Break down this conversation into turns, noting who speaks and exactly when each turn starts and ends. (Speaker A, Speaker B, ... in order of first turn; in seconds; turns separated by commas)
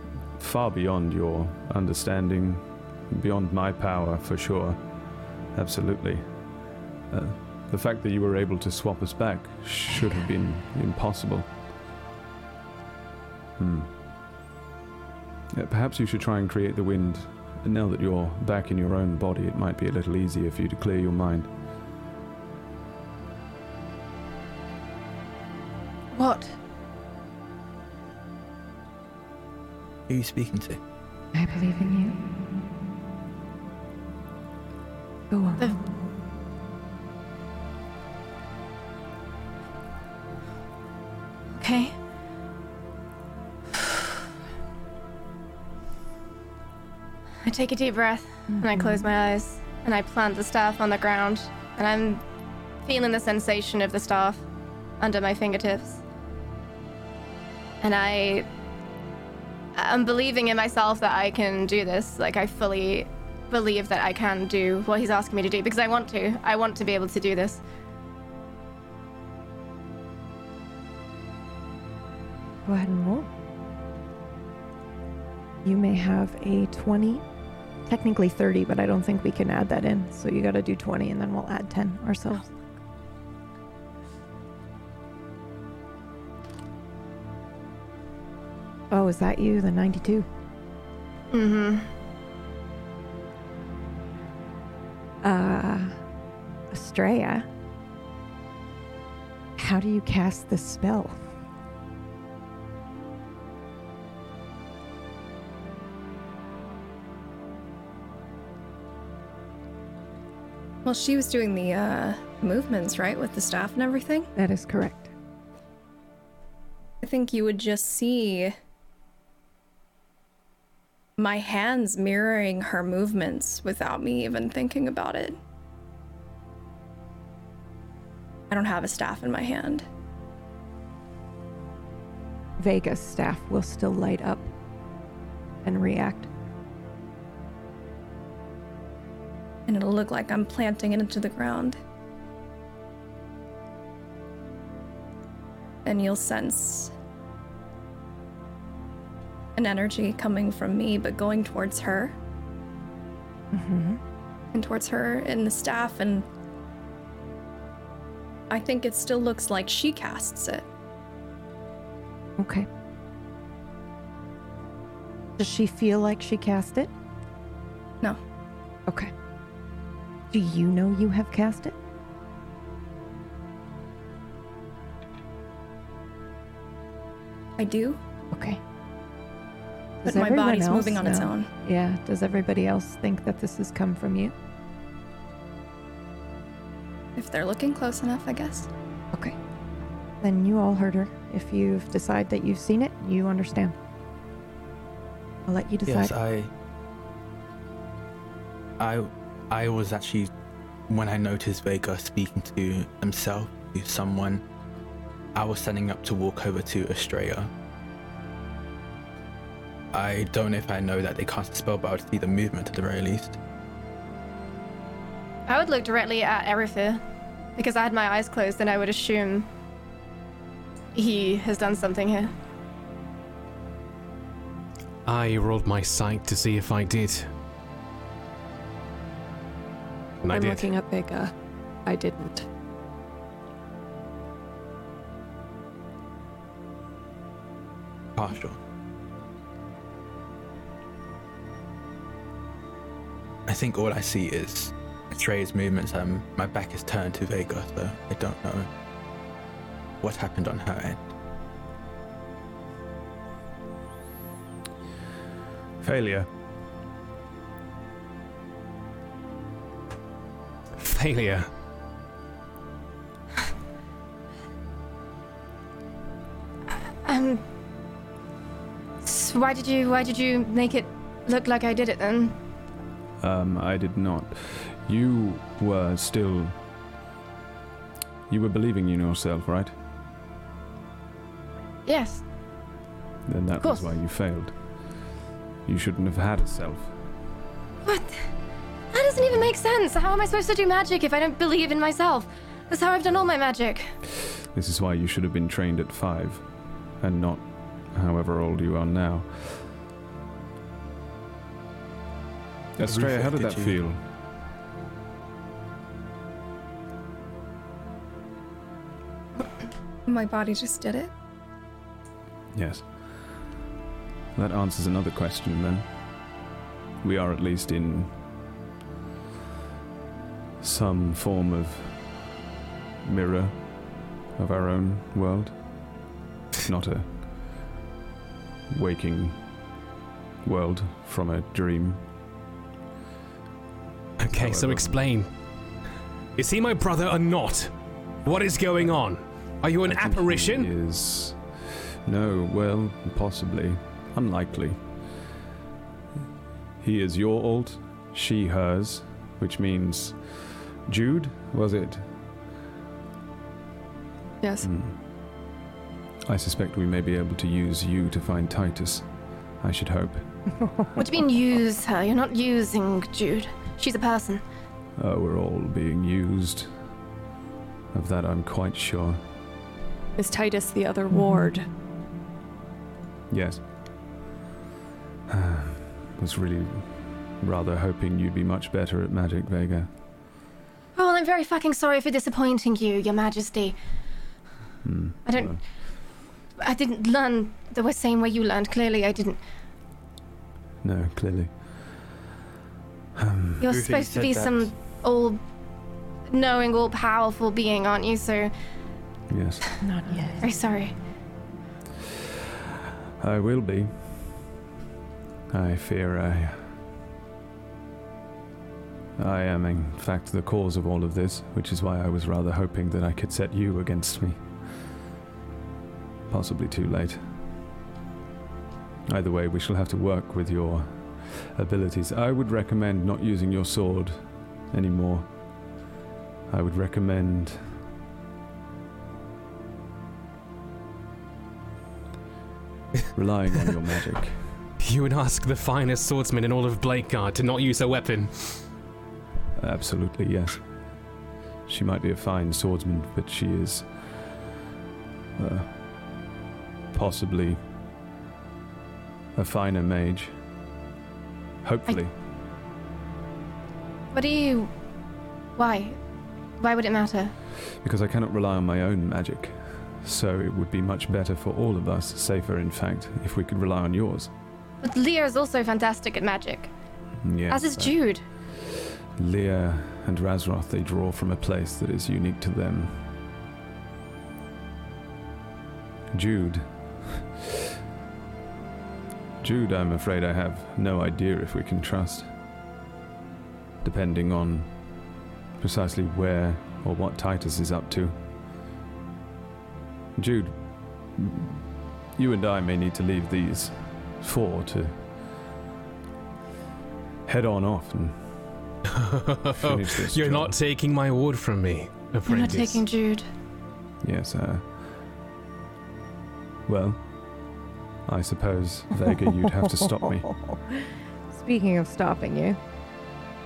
Speaker A: 0.4-4.8, Speaker A: 5.5-6.4, Speaker A: 7.1-11.5, Speaker A: 13.6-13.9, Speaker A: 15.5-21.5, Speaker B: 26.1-26.6, Speaker C: 30.1-30.8, Speaker D: 31.3-32.1, Speaker D: 35.3-35.9, Speaker B: 41.5-42.0, Speaker B: 47.4-52.2, Speaker D: 48.5-49.1, Speaker B: 52.8-54.4, Speaker B: 55.0-56.0, Speaker B: 57.8-58.5, Speaker B: 59.8-67.6, Speaker D: 72.7-73.3, Speaker D: 75.6-77.2, Speaker D: 77.9-82.4, Speaker D: 88.9-90.3, Speaker B: 91.3-91.9, Speaker D: 95.2-96.0, Speaker D: 96.7-97.5, Speaker D: 99.6-101.3, Speaker E: 110.8-114.3, Speaker D: 114.4-115.1, Speaker E: 117.0-118.6, Speaker E: 121.2-125.4, Speaker E: 128.5-129.9, Speaker D: 132.6-134.5, Speaker D: 135.6-136.3, Speaker E: 139.7-141.8, Speaker E: 145.8-146.9, Speaker E: 149.6-152.2, Speaker D: 153.5-154.0, Speaker E: 154.5-156.3, Speaker E: 158.5-160.7, Speaker D: 162.4-162.7, Speaker D: 165.4-166.9, Speaker D: 168.9-169.1, Speaker D: 170.3-171.7, Speaker E: 177.6-178.0, Speaker D: 178.3-178.6, Speaker E: 180.0-181.5, Speaker D: 180.0-184.3, Speaker E: 187.2-188.7, Speaker D: 190.2-193.8, Speaker D: 195.5-196.1, Speaker C: 195.9-196.5, Speaker C: 198.8-200.3, Speaker C: 200.9-204.4, Speaker C: 205.3-207.5, Speaker C: 209.9-213.4, Speaker B: 215.5-217.0, Speaker B: 217.6-219.5, Speaker B: 220.9-222.3, Speaker F: 225.1-227.3, Speaker F: 230.2-230.7, Speaker G: 230.3-231.3, Speaker G: 231.8-232.5, Speaker C: 238.2-238.6, Speaker C: 243.5-248.7, Speaker C: 250.0-251.1, Speaker A: 255.8-256.3, Speaker F: 260.8-261.5, Speaker B: 267.0-267.4, Speaker B: 269.0-272.4, Speaker A: 273.2-276.6, Speaker A: 278.3-279.8, Speaker B: 281.9-282.3, Speaker A: 283.3-285.1, Speaker B: 283.6-283.9, Speaker A: 285.6-286.9, Speaker B: 287.8-288.3, Speaker B: 288.9-293.9, Speaker A: 294.5-299.8, Speaker A: 302.8-304.0, Speaker C: 302.8-303.8, Speaker E: 310.1-311.1, Speaker A: 312.5-313.4, Speaker A: 314.4-315.9, Speaker A: 317.0-318.2, Speaker A: 320.6-322.3, Speaker A: 323.0-325.6, Speaker A: 326.6-327.6, Speaker A: 328.7-329.6, Speaker A: 330.4-332.1, Speaker F: 334.2-335.3, Speaker A: 334.3-335.0, Speaker F: 336.4-340.7, Speaker A: 339.8-345.3, Speaker A: 346.8-352.1, Speaker G: 354.4-354.7, Speaker A: 354.6-355.0, Speaker A: 356.3-360.4, Speaker D: 360.6-361.0, Speaker B: 360.9-364.4, Speaker A: 364.9-366.8, Speaker A: 367.9-369.2, Speaker G: 370.2-371.7, Speaker D: 371.1-371.5, Speaker A: 373.3-373.6, Speaker A: 375.3-379.9, Speaker B: 380.9-383.8, Speaker A: 384.8-385.6, Speaker B: 385.3-389.4, Speaker A: 390.8-392.0, Speaker A: 393.2-393.7, Speaker B: 393.6-395.4, Speaker C: 393.7-394.7, Speaker B: 396.3-398.5, Speaker A: 399.3-399.6, Speaker D: 399.8-400.5, Speaker B: 400.4-400.9, Speaker A: 403.2-404.5, Speaker A: 405.5-406.9, Speaker A: 409.2-414.9, Speaker A: 416.3-417.3, Speaker A: 419.1-425.7, Speaker A: 426.5-427.8, Speaker A: 433.1-434.6, Speaker F: 434.8-438.7, Speaker A: 439.6-441.0, Speaker A: 441.6-444.4, Speaker A: 445.4-446.1, Speaker A: 446.9-447.6, Speaker A: 449.4-450.4, Speaker A: 451.6-452.1, Speaker B: 454.1-454.7, Speaker B: 455.6-456.0, Speaker B: 456.6-457.4, Speaker A: 457.6-464.3, Speaker B: 464.8-466.7, Speaker A: 467.2-473.1, Speaker B: 467.5-468.3, Speaker A: 476.1-477.3, Speaker A: 479.4-482.3, Speaker A: 483.8-484.9, Speaker A: 485.6-488.2, Speaker A: 490.1-495.1, Speaker A: 497.3-498.5, Speaker F: 499.0-502.8, Speaker A: 499.6-500.6, Speaker B: 502.3-503.3, Speaker A: 504.0-504.8, Speaker A: 506.6-507.1, Speaker A: 508.1-510.3, Speaker D: 510.3-512.6